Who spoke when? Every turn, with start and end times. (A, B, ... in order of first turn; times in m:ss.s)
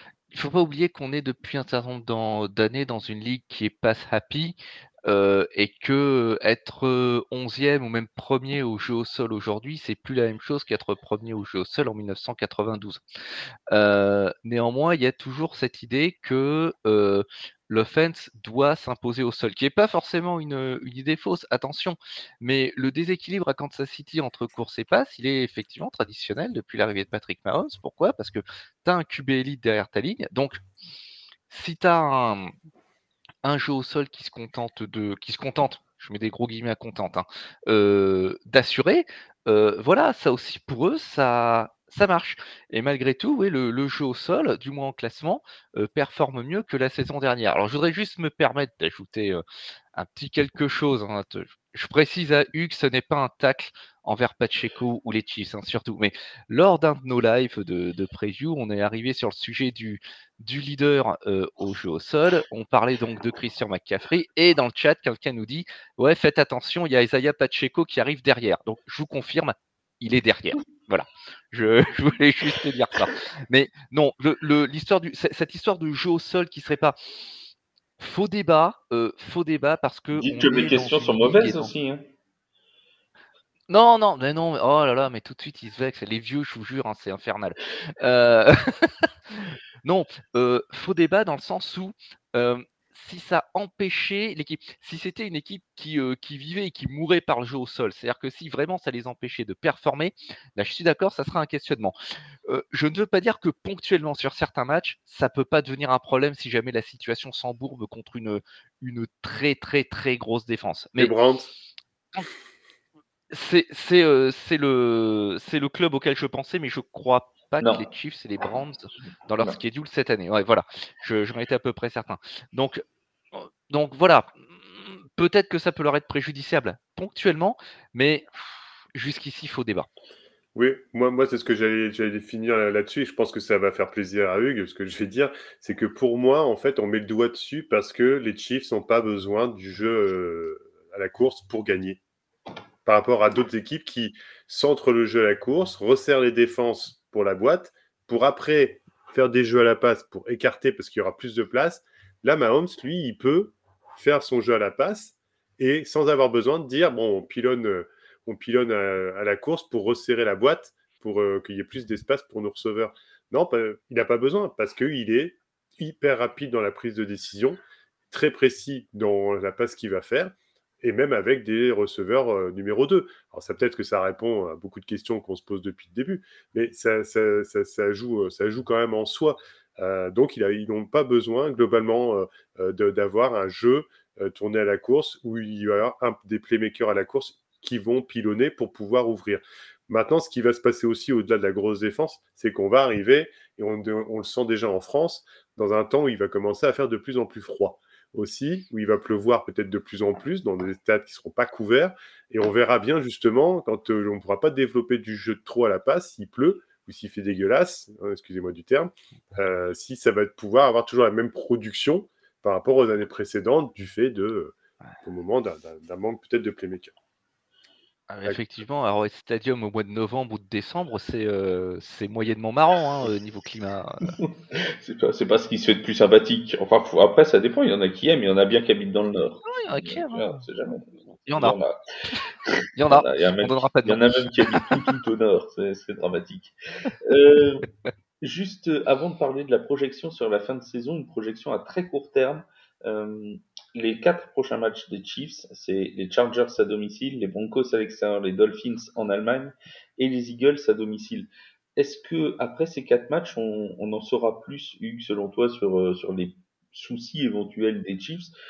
0:00.3-0:13.0 A
0:13.7-0:30.6 A
0:31.5-0:32.5 A
0:33.4-0:49.4 A
0:50.0-1:17.0 A
1:18.0-1:21.7 A
1:20.1-1:22.0 B
1:23.7-1:41.9 A
1:42.5-1:51.1 A
1:51.0-1:51.5 C
1:53.3-2:02.8 A
1:57.6-1:57.9 B
2:03.3-2:08.2 A
2:08.9-2:09.9 A
2:10.6-2:22.0 C
2:22.8-3:36.9 C
3:38.1-3:44.2 A
3:44.2-3:51.8 B
3:49.5-3:50.4 A
3:51.3-3:51.6 A
3:52.5-3:57.7 B
3:52.8-3:54.6 A
3:58.2-4:18.3 B